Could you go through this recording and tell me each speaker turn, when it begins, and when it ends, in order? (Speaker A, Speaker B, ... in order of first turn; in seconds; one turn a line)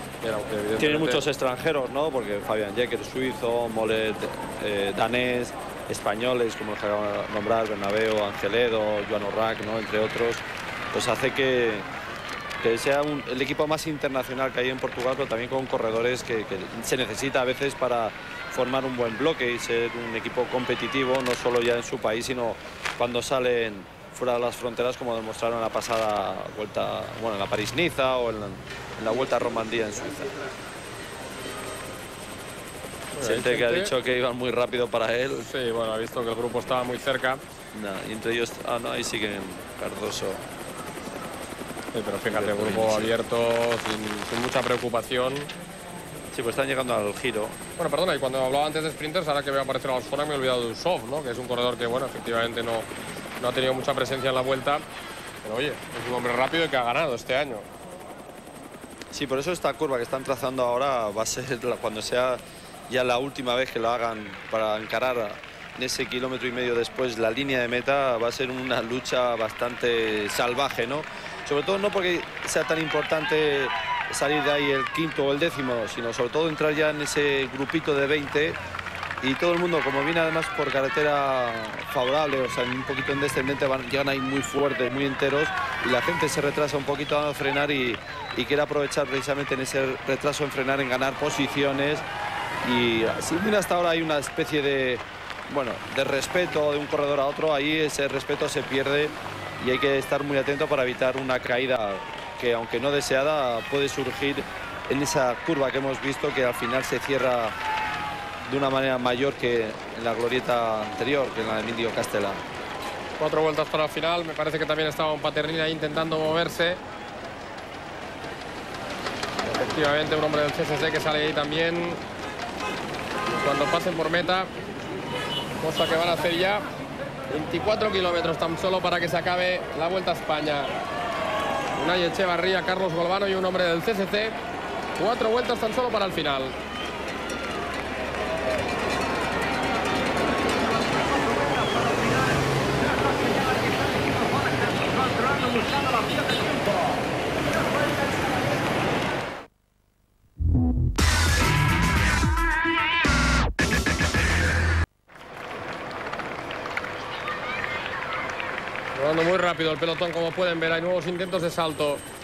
Speaker A: 0.2-1.2
Speaker B: 0.8-11.9
Speaker B: 12.6-30.4
Speaker A: 33.1-33.9
Speaker B: 33.2-35.5
Speaker A: 35.4-37.4
Speaker B: 37.7-40.4
Speaker A: 41.9-45.5
Speaker B: 42.3-43.1
Speaker B: 46.3-47.6
Speaker A: 47.8-52.9
Speaker A: 53.4-54.8
Speaker A: 55.4-57.6
Speaker B: 59.1-78.6
Speaker B: 79.2-92.0
Speaker B: 92.6-107.5
Speaker B: 108.5-112.4
Speaker A: 113.2-116.8
Speaker A: 119.4-122.0
Speaker A: 123.3-124.5
Speaker A: 125.6-126.7
Speaker A: 127.3-130.7
Speaker A: 131.7-134.3
Speaker A: 135.0-136.5
Speaker A: 158.9-162.0